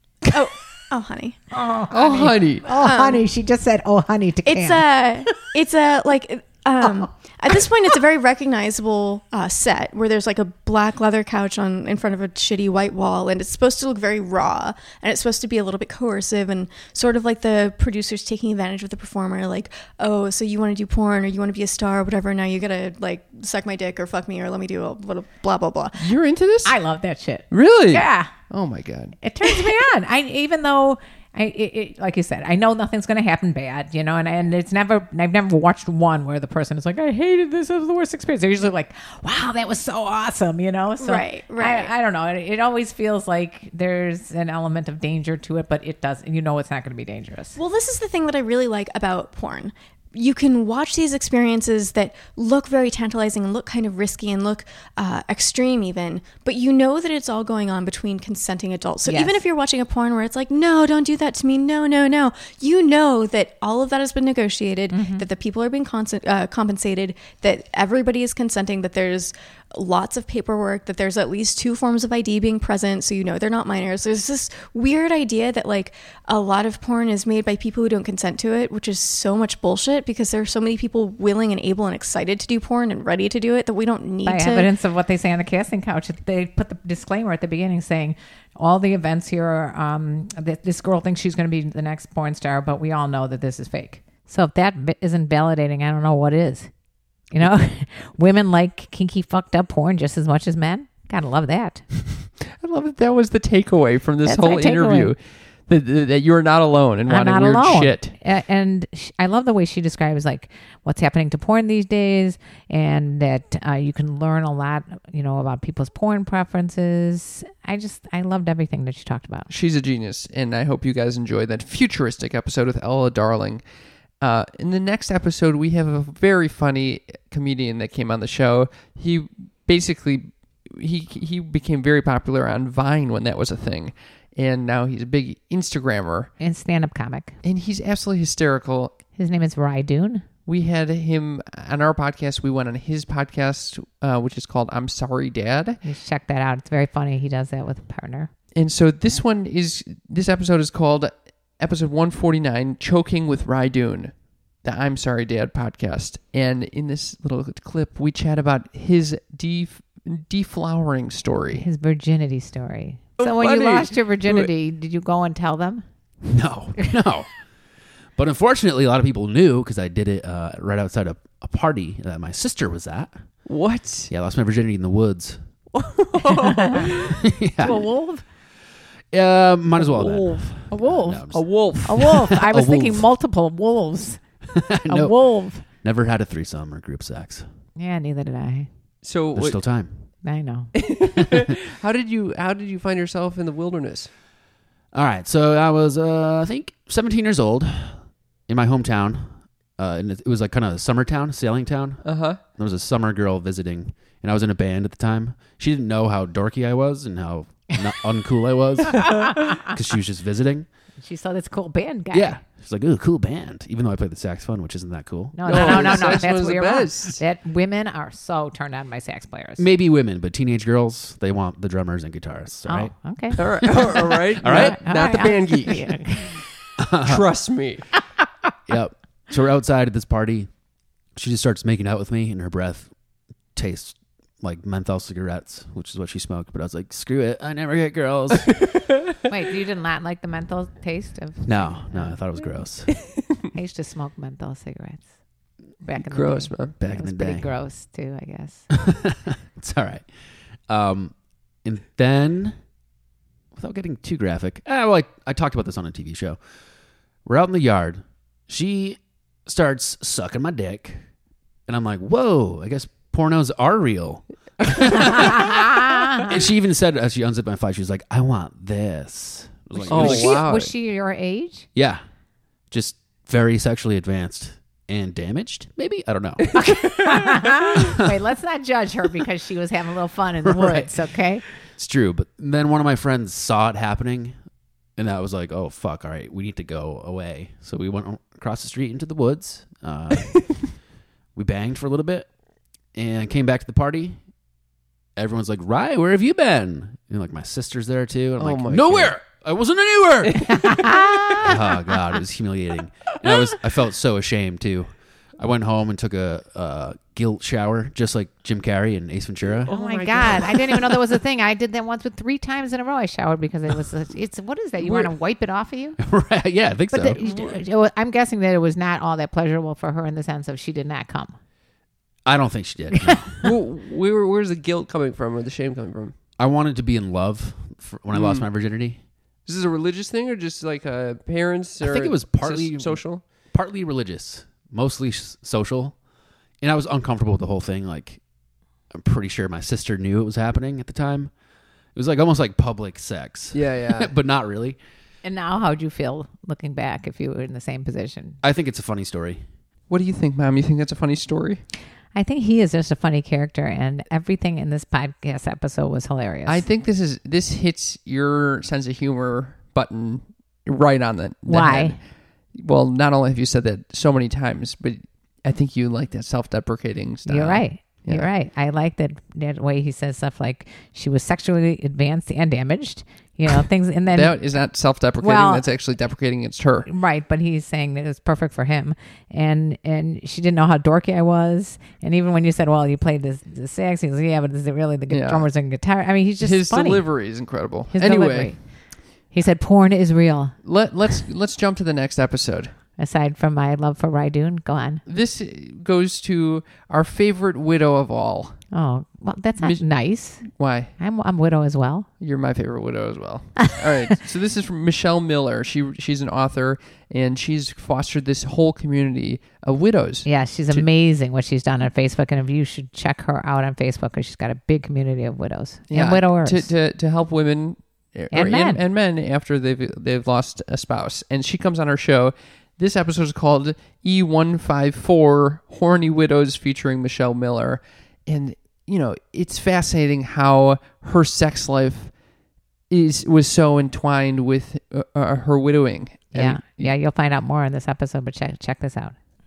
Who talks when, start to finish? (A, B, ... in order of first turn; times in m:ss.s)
0:00.3-0:01.4 A
0:01.5-0:04.9 B
0:01.9-0:02.7 C
0:02.2-0:03.2 A
0:04.4-0:26.0 A
0:26.0-0:26.8 C
0:26.6-0:28.3 B
0:27.5-0:29.1 C
0:29.2-0:47.6 B
0:41.0-0:41.9 A
0:47.6-1:24.7 A
0:59.0-0:59.4 B
1:04.9-1:05.3 B
1:24.2-1:36.7 B
1:37.3-1:41.8 B
1:42.4-1:48.1 C
1:44.2-1:45.1 B
1:47.1-1:59.5 B
1:59.5-2:03.6 C
2:04.2-2:16.3 C
2:16.4-2:17.4 B
2:17.4-2:19.0 C
2:19.2-2:20.2 B
2:20.4-2:25.8 C
2:25.8-2:28.3 B
2:28.5-2:41.6 C
2:41.5-2:45.8 B
2:43.2-2:44.5 C
2:46.2-2:47.3 D
2:48.2-2:53.2 D
2:53.4-2:54.1 C
2:54.1-2:55.4 D
2:55.8-2:57.1 C
2:56.4-2:57.0 B
2:57.0-2:57.8 D
2:57.6-2:58.2 B
2:59.1-3:03.1 D
2:59.8-3:00.5 C
3:00.7-3:01.3 B
3:01.3-3:02.2 C
3:01.8-3:04.2 B
3:04.5-3:07.4 D
3:04.9-3:05.6 B
3:07.8-3:08.7 B
3:09.0-3:09.6 C
3:09.3-3:10.0 D
3:10.2-3:10.7 B
3:10.8-3:14.1 C
3:14.9-3:29.2 D
3:22.0-3:22.4 C
3:29.0-3:29.6 B
3:29.7-3:30.7 D
3:31.0-3:32.4 B
3:32.1-3:36.2 D
3:35.3-3:39.6 B
3:35.4-3:37.2 C
3:39.6-3:45.2 D
3:42.7-3:46.4 B
3:43.4-3:46.0 C
3:46.8-3:47.2 D
3:47.0-3:47.9 C
3:48.7-3:50.5 D
3:51.1-3:52.9 D
3:53.5-3:58.7 D
3:59.3-4:02.2 B
4:01.4-4:03.0 D
4:03.5-4:05.1 B
4:05.8-4:08.7 B
4:06.0-4:06.7 C
4:06.8-4:07.5 D
4:08.7-4:10.1 D
4:10.7-4:12.6 D
4:13.5-4:16.4 D
4:17.2-4:21.0 D
4:21.7-4:25.7 D
4:25.9-4:26.2 B
4:26.2-4:30.5 D
4:29.9-4:31.7 B
4:29.9-4:30.7 C
4:31.7-4:32.0 D
4:32.7-4:36.6 D
4:36.5-4:41.4 B
4:36.6-4:37.6 C
4:40.4-4:40.9 D
4:41.8-4:44.4 D
4:45.0-4:50.7 D
4:51.4-4:52.3 D
4:52.9-4:54.2 D
4:55.2-5:00.6 D
4:58.4-4:59.2 C
5:00.2-5:01.4 C
5:00.6-5:01.4 B
5:01.4-5:10.4 D
5:09.6-5:11.0 C
5:09.7-5:16.0 B
5:14.8-5:15.1 C
5:16.0-5:17.2 D
5:16.9-5:21.4 B
5:17.2-5:17.6 C
5:22.2-5:23.4 D
5:23.4-5:26.1 C
5:26.4-5:29.0 D
5:28.1-5:28.5 C
5:29.4-5:33.2 C
5:31.8-5:36.0 D
5:36.6-5:38.2 D
5:38.9-5:41.3 D
5:41.9-5:44.8 D
5:43.5-5:44.1 C
5:45.2-5:48.4 B
5:48.4-5:49.4 D
5:49.9-5:51.6 C
5:52.1-5:56.6 B
5:56.4-6:02.0 C
6:01.4-6:02.0 B
6:02.5-6:08.3 C
6:07.2-6:14.4 B
6:14.1-6:16.9 C
6:15.2-6:15.6 B
6:16.9-6:28.6 B
6:25.1-6:25.5 C
6:26.4-6:28.5 C
6:29.3-6:30.6 B
6:30.6-6:32.7 C
6:33.0-6:35.0 B
6:35.0-6:38.6 C
6:38.7-6:42.1 B
6:39.6-6:39.8 C
6:40.4-6:40.9 C
6:42.2-6:50.9 C
6:50.2-6:56.7 B
6:55.9-7:12.1 C
6:58.3-6:58.8 B
7:12.9-7:16.9 C
7:16.3-7:19.1 B